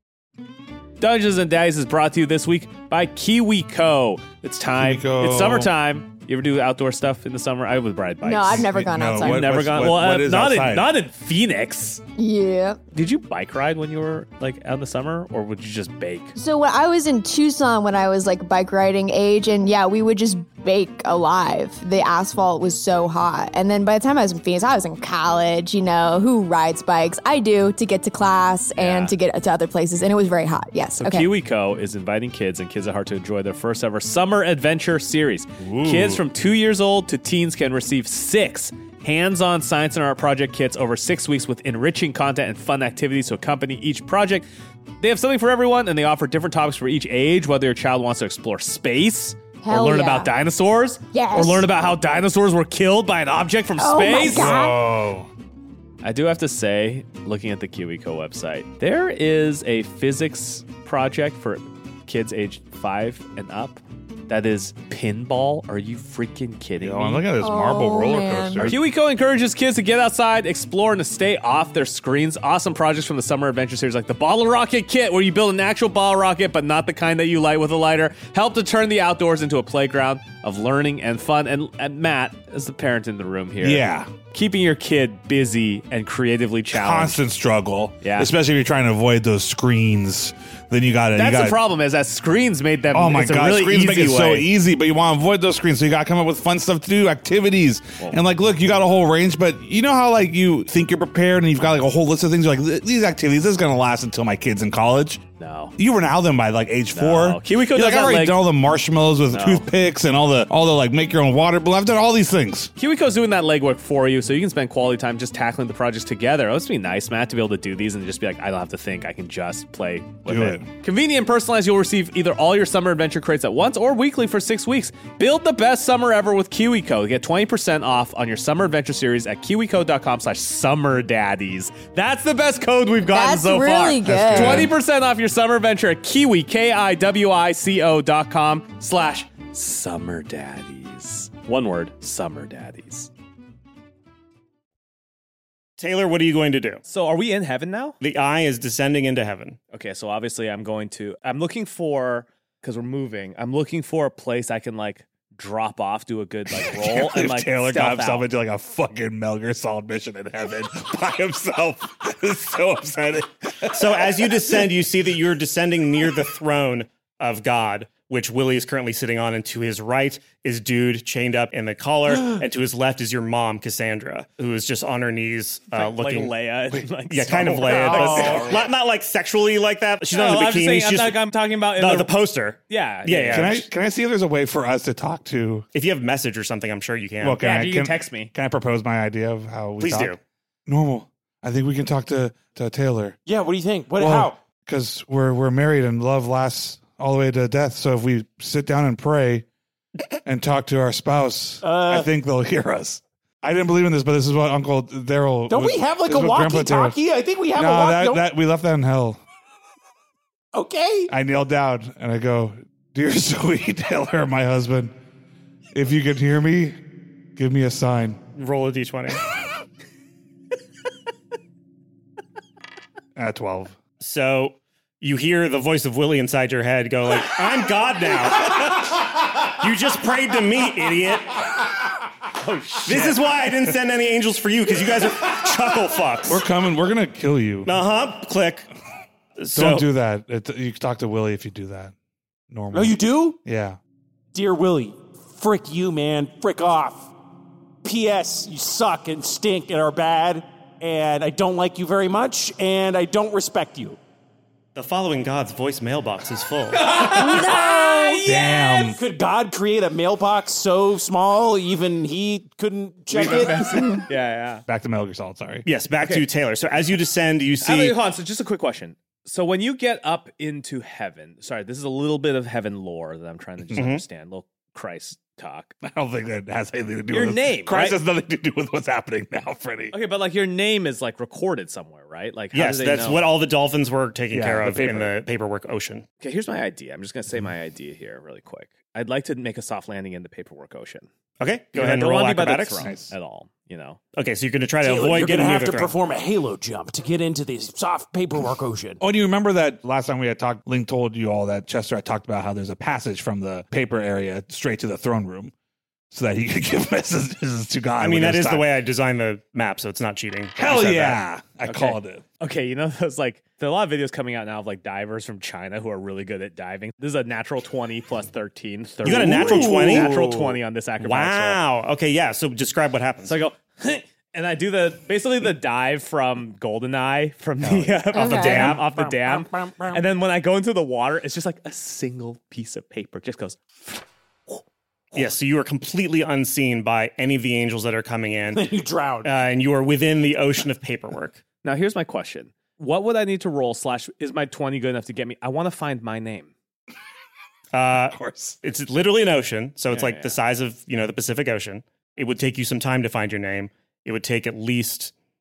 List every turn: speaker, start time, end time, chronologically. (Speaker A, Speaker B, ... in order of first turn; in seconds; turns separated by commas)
Speaker A: 1.0-12.0, Speaker B: 4.8-5.7, Speaker C: 8.2-9.7, Speaker B: 8.5-10.9, Speaker C: 12.2-12.8, Speaker A: 12.9-16.3, Speaker C: 16.3-31.3, Speaker A: 28.8-29.1, Speaker A: 31.0-44.5, Speaker B: 35.6-36.2, Speaker A: 45.0-54.5, Speaker C: 49.6-50.3, Speaker C: 51.1-51.7, Speaker C: 53.8-54.8, Speaker B: 54.2-55.3, Speaker A: 56.0-67.3, Speaker B: 66.8-68.8, Speaker C: 67.4-68.7, Speaker A: 68.6-87.2, Speaker B: 83.6-84.1, Speaker B: 86.7-91.6, Speaker A: 88.0-88.3, Speaker A: 91.1-94.5, Speaker B: 92.9-105.2, Speaker A: 105.4-105.7, Speaker B: 105.8-112.7, Speaker A: 106.9-108.4, Speaker A: 109.3-109.7, Speaker A: 112.8-143.1, Speaker B: 120.2-120.7, Speaker C: 133.1-134.7, Speaker B: 134.0-134.7, Speaker D: 145.8-146.8, Speaker A: 146.8-148.0, Speaker D: 148.0-149.6, Speaker A: 149.7-158.3, Speaker B: 156.6-164.6, Speaker D: 163.7-176.3, Speaker A: 175.7-178.5, Speaker B: 176.7-178.6, Speaker D: 177.1-183.6, Speaker A: 180.1-182.1, Speaker A: 182.7-183.7, Speaker B: 183.3-185.7, Speaker D: 185.7-187.4, Speaker B: 187.2-190.1, Speaker A: 187.4-188.3, Speaker D: 189.8-190.2, Speaker B: 190.7-193.2, Speaker E: 193.2-194.4, Speaker B: 194.0-199.4, Speaker B: 200.2-206.9, Speaker E: 201.6-202.1, Speaker E: 205.5-208.2, Speaker B: 207.5-209.2, Speaker E: 210.5-211.1, Speaker B: 211.1-214.9, Speaker B: 215.7-216.8, Speaker B: 217.3-218.2, Speaker D: 218.3-219.2, Speaker B: 223.2-223.8, Speaker D: 224.0-229.0, Speaker D: 229.6-231.4, Speaker A: 232.4-233.1, Speaker D: 232.8-236.4, Speaker B: 236.3-237.7, Speaker D: 237.6-238.7, Speaker D: 239.4-239.9, Speaker B: 239.5-241.9, Speaker B: 242.5-243.8, Speaker E: 242.7-243.4, Speaker E: 244.3-247.1, Speaker E: 247.8-254.0, Speaker D: 254.7-256.9, Speaker A: 256.8-258.9, Speaker C: 257.2-258.1, Speaker B: 258.2-259.0, Speaker E: 258.9-264.0, Speaker A: 263.1-264.6, Speaker B: 264.6-265.6, Speaker D: 265.6-268.0, Speaker A: 267.6-275.7, Speaker D: 273.7-274.0, Speaker B: 275.8-280.0, Speaker A: 277.1-278.0, Speaker A: 279.9-283.2, Speaker D: 282.5-286.0, Speaker B: 284.3-285.1, Speaker A: 286.2-291.1, Speaker D: 291.4-292.9, Speaker A: 291.7-294.0, Speaker B: 292.8-293.1, Speaker D: 294.1-295.9, Speaker E: 294.8-299.0, Speaker B: 299.0-305.5, Speaker B: 306.1-308.7, Speaker D: 308.0-311.2, Speaker B: 310.6-312.2, Speaker A: 311.6-321.6, Speaker D: 319.0-320.2, Speaker B: 319.1-320.6, Speaker D: 321.0-323.4, Speaker A: 323.2-334.0, Speaker D: 328.1-328.8, Speaker C: 328.1-328.7, Speaker E: 328.7-330.0, Speaker D: 335.1-338.6, Speaker E: 338.5-339.3, Speaker D: 339.2-341.4, Speaker A: 341.6-346.5, Speaker D: 347.7-355.1, Speaker B: 348.1-348.6, Speaker A: 349.9-350.4